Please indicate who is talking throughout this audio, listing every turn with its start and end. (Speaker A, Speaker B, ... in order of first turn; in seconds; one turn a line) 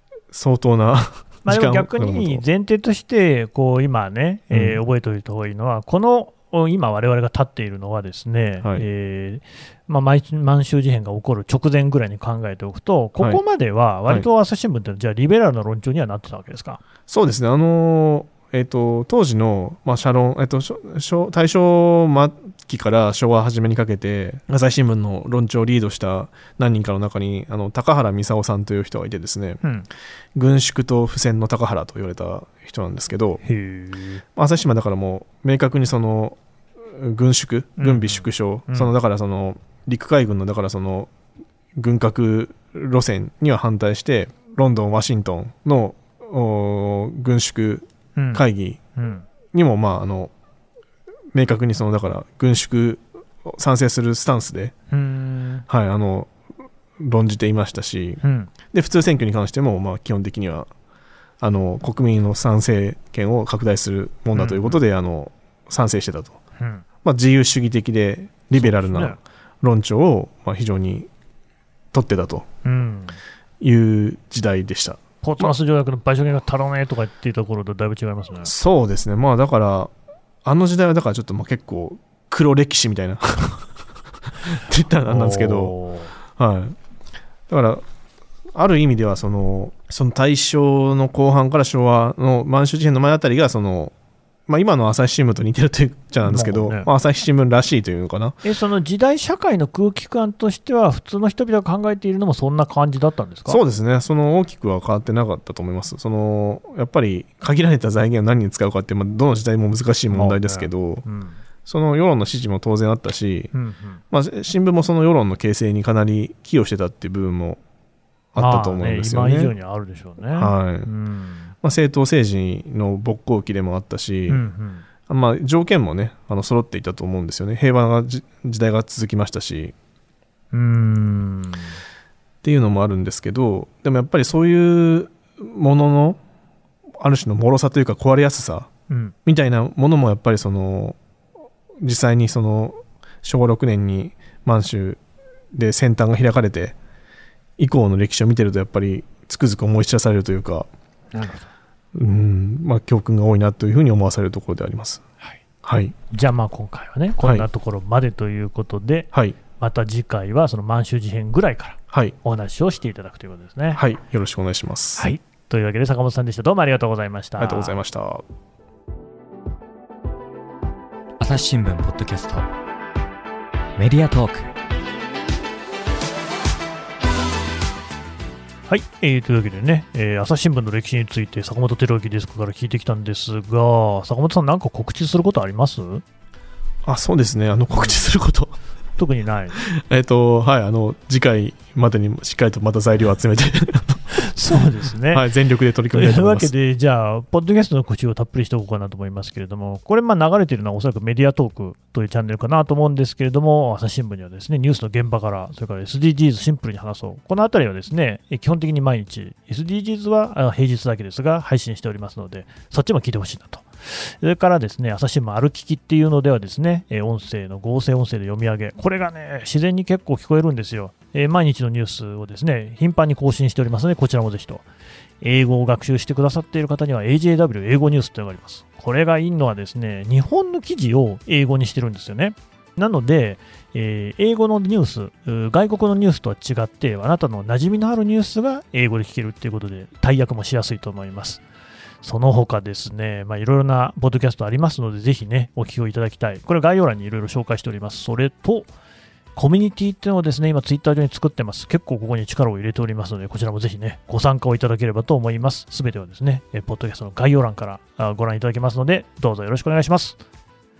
Speaker A: 0.3-2.4
Speaker B: 1.4-16.8
Speaker A: 4.5-4.8
Speaker A: 17.1-29.6
Speaker B: 29.6-29.9
Speaker A: 30.3-33.4
Speaker B: 33.4-34.2
Speaker A: 34.4-41.1
Speaker B: 37.8-38.9
Speaker A: 41.7-48.8
Speaker B: 48.1-48.4
Speaker B: 49.0-49.2
Speaker A: 49.5-50.3
Speaker A: 51.3-54.7
Speaker B: 54.9-55.6
Speaker A: 55.7-56.3
Speaker A: 57.0-60.7
Speaker B: 58.2-58.5
Speaker A: 61.4-66.4
Speaker B: 64.3-64.8
Speaker B: 66.6-66.8
Speaker A: 67.0-71.1
Speaker B: 68.5-69.2
Speaker A: 71.9-72.5
Speaker B: 72.6-73.2
Speaker A: 73.6-75.5
Speaker B: 75.2-78.5
Speaker A: 78.4-79.9
Speaker A: 80.4-83.7
Speaker A: 84.3-85.8
Speaker B: 85.0-86.1
Speaker A: 86.4-86.8
Speaker A: 87.5-87.8
Speaker A: 88.5-93.9
Speaker A: 94.5-98.4
Speaker B: 96.2-96.9
Speaker B: 98.4-103.6
Speaker A: 103.5-111.0
Speaker B: 110.1-111.4
Speaker A: 111.7-113.5
Speaker B: 113.5-114.0
Speaker A: 114.1-117.6
Speaker A: 118.3-119.5
Speaker B: 118.4-121.5
Speaker A: 120.3-120.9
Speaker A: 121.6-124.4
Speaker B: 124.3-124.8
Speaker A: 125.1-129.7
Speaker B: 130.5-131.8
Speaker A: 132.4-136.2
Speaker A: 137.0-138.7
Speaker B: 138.9-139.1
Speaker A: 139.2-141.0
Speaker A: 141.8-145.0
Speaker A: 145.5-146.7
Speaker A: 147.6-150.7
Speaker B: 151.1-151.5
Speaker A: 151.9-155.0
Speaker A: 155.6-155.9
Speaker B: 156.1-163.8
Speaker A: 157.2-157.5
Speaker A: 163.7-165.1
Speaker B: 164.9-167.8
Speaker A: 167.4-168.2
Speaker C: 171.2-172.5
Speaker C: 173.8-174.5
Speaker B: 178.7-186.0
Speaker A: 186.8-188.5
Speaker B: 189.0-189.6
Speaker A: 189.6-194.3
Speaker B: 194.1-195.2
Speaker A: 195.0-196.5
Speaker B: 195.9-224.6
Speaker B: 225.2-241.4
Speaker B: 242.0-248.7
Speaker B: 249.3-260.2